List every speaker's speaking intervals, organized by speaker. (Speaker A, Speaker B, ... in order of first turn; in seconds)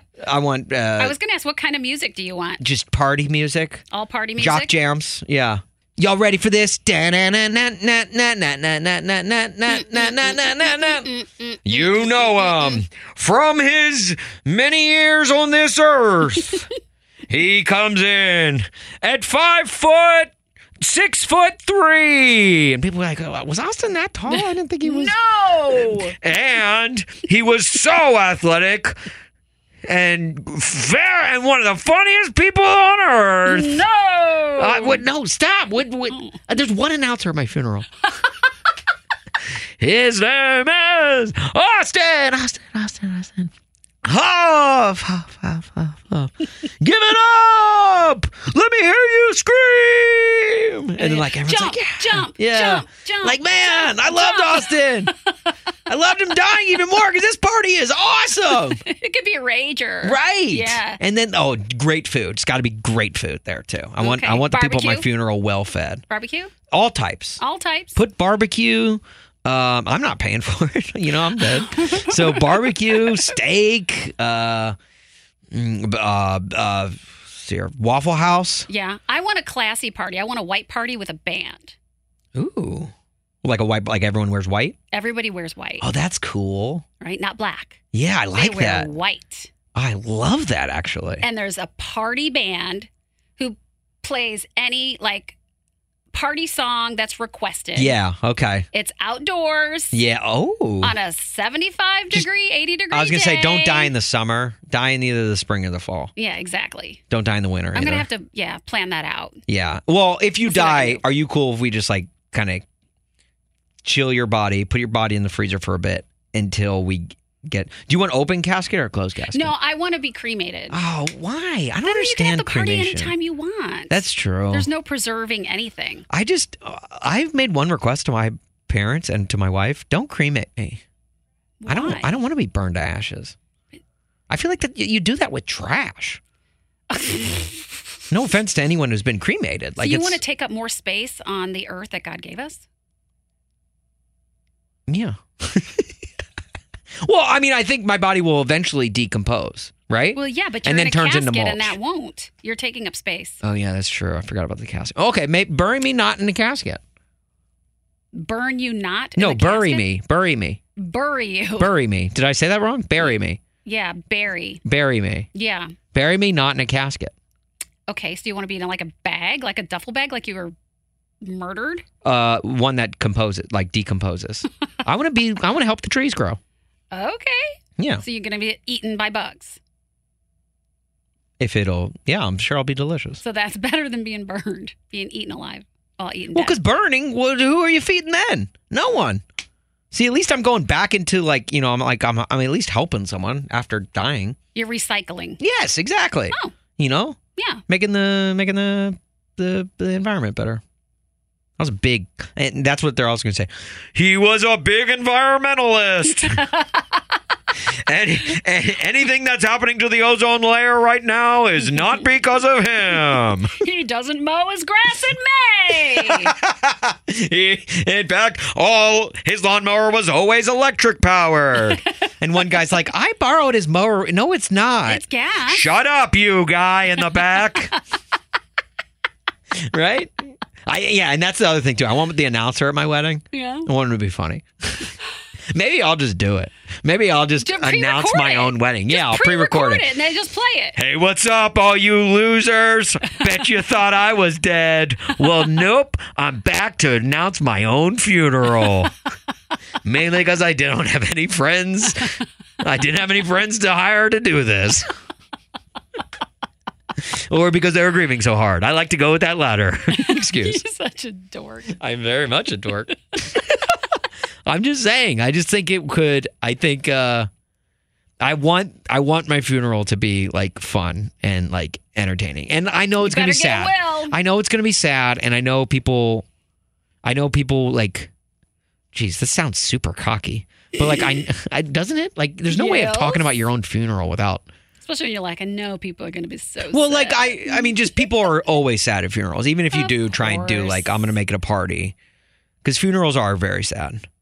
Speaker A: 0.2-1.2, 2.6-3.8, 4.4-11.1, 11.7-16.7, 17.3-28.9, 29.9-33.9, 34.6-38.0, 39.8-43.5, 44.0-55.1, 55.9-58.8, 60.0-66.0, 66.7-67.4, 67.9-74.8, 75.5-78.7, 82.3-84.8, 85.8-86.8, 87.9-88.9, 89.7-91.2, 97.8-98.7, 99.9-100.9, 102.9-106.1, 107.1-108.1, 109.5-112.7, 113.8-119.5, 120.7-123.2, 123.9-124.7, 126.1-130.8, 131.7-133.3, 134.3-136.2, 138.1-140.2, 144.9-145.9, 147.0-151.8, 153.4-156.8, 159.2-160.6, 161.6-163.4, 164.7-165.3, 165.8-167.1, 172.0-176.4, 177.8-178.0, 181.4-183.2, 186.3-189.2, 189.9-194.4, 195.4-200.6, 201.6-206.5, 207.9-213.6, 215.9-227.7, 229.7-234.9, 235.5-239.9, 240.7-248.9, 249.8-254.9, 257.0-260.6, 261.7-263.6, 264.4-267.3, 268.2-276.2, 277.0-278.1, 278.9-284.5, 286.6-291.9, 292.6-294.1
Speaker B: 1.0-2.6, 3.9-4.7, 9.7-12.8, 24.3-26.1, 33.5-35.0, 51.0-55.1, 58.8-61.0, 64.0-65.1, 66.1-66.5, 67.4-68.0, 78.7-81.8, 84.9-85.8, 87.0-87.8, 88.3-89.5, 91.2-95.4, 96.1-98.0, 98.7-100.0, 100.8-103.9, 106.2-107.0, 107.7-109.4, 110.5-111.0, 119.3-120.8, 121.8-126.0, 131.6-132.1, 136.9-137.7, 139.8-142.6, 150.2-153.4, 158.1-159.9, 160.8-161.7, 163.0-164.6, 165.3-165.8, 167.9-170.5, 171.2-171.8, 176.9-177.4, 178.0-179.6, 183.2-186.6, 194.6-195.4, 197.4-197.6, 206.1-207.0, 213.5-216.3, 224.9-225.7, 233.3-233.7, 237.4-240.7, 259.9-261.8, 273.0-274.2, 280.8-281.2, 282.5-283.3, 284.8-287.9, 289.7-291.1